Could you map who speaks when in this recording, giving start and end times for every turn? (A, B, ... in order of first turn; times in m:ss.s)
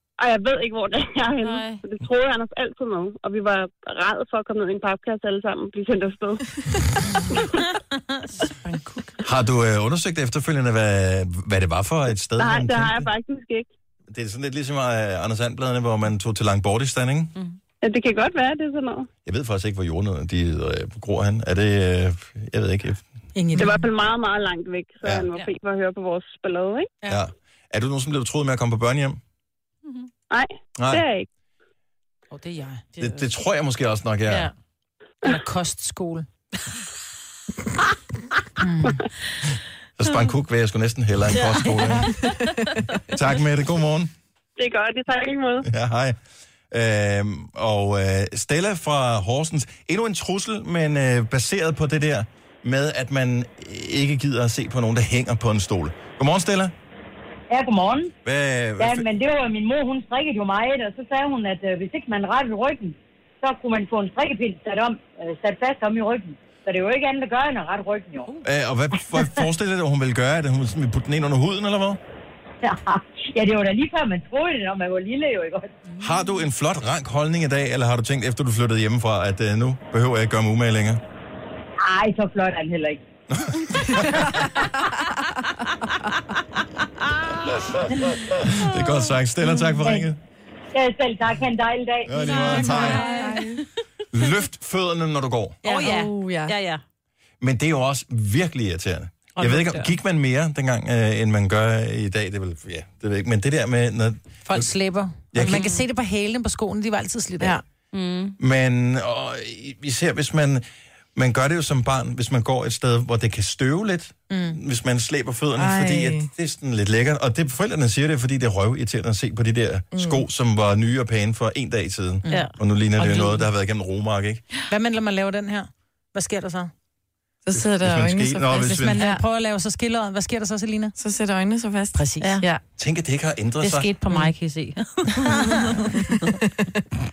0:00.2-0:06.4 A
0:01.4-0:01.8 B
0:08.2-0:09.2 B
0:09.2-0:13.1 C
0:12.3-0:13.7 A
0:14.1-0:17.3 C
0:17.8-0:19.1 A
0:19.2-0:23.0 C
0:23.3-0:23.8 D
0:23.6-0:26.9 A
0:25.0-0:25.3 C
0:27.1-0:29.2 C
0:30.3-0:31.3 A
0:30.8-0:31.1 C
0:32.3-0:33.2 D
0:33.0-0:34.5 C
0:34.3-0:34.5 B
0:35.2-0:36.3 D
0:38.6-0:39.0 D
0:40.0-0:42.2 C
0:41.4-0:42.8 B
0:43.1-0:44.1 C
0:44.6-0:45.6 A
0:45.6-0:46.2 C
0:46.7-0:56.7 C
0:57.5-0:58.1 E
0:58.2-0:59.0 C
0:58.8-1:08.3 E
1:08.4-1:12.0 C
1:12.6-1:15.8 E
1:16.0-1:21.0 C
1:21.8-1:23.0 E
1:23.3-1:24.4 C
1:28.0-1:30.2 C
1:29.8-1:30.1 E
1:30.7-1:32.9 E
1:32.0-1:33.1 C
1:32.2-1:33.5 D
1:32.5-1:33.6 B
1:32.8-1:33.6 F
1:34.1-1:35.6 C
1:35.6-1:36.8 B
1:35.6-1:36.5 F
1:37.4-1:44.7 C
1:39.4-1:39.9 B
1:44.4-1:47.6 D
1:45.3-1:45.6 C
1:45.4-1:45.8 B
1:47.9-1:48.4 B
1:48.4-2:04.4 C
1:54.3-1:54.6 D
1:55.6-1:56.3 F
1:59.9-2:00.2 F
2:02.2-2:03.4 D
2:04.7-2:06.7 D
2:07.4-2:09.2 F
2:07.5-2:09.1 C
2:08.5-2:10.9 D
2:11.0-2:12.6 F
2:11.9-2:12.4 D
2:12.8-2:13.9 C
2:13.6-2:15.9 B
2:15.3-2:15.5 D
2:15.9-2:16.3 F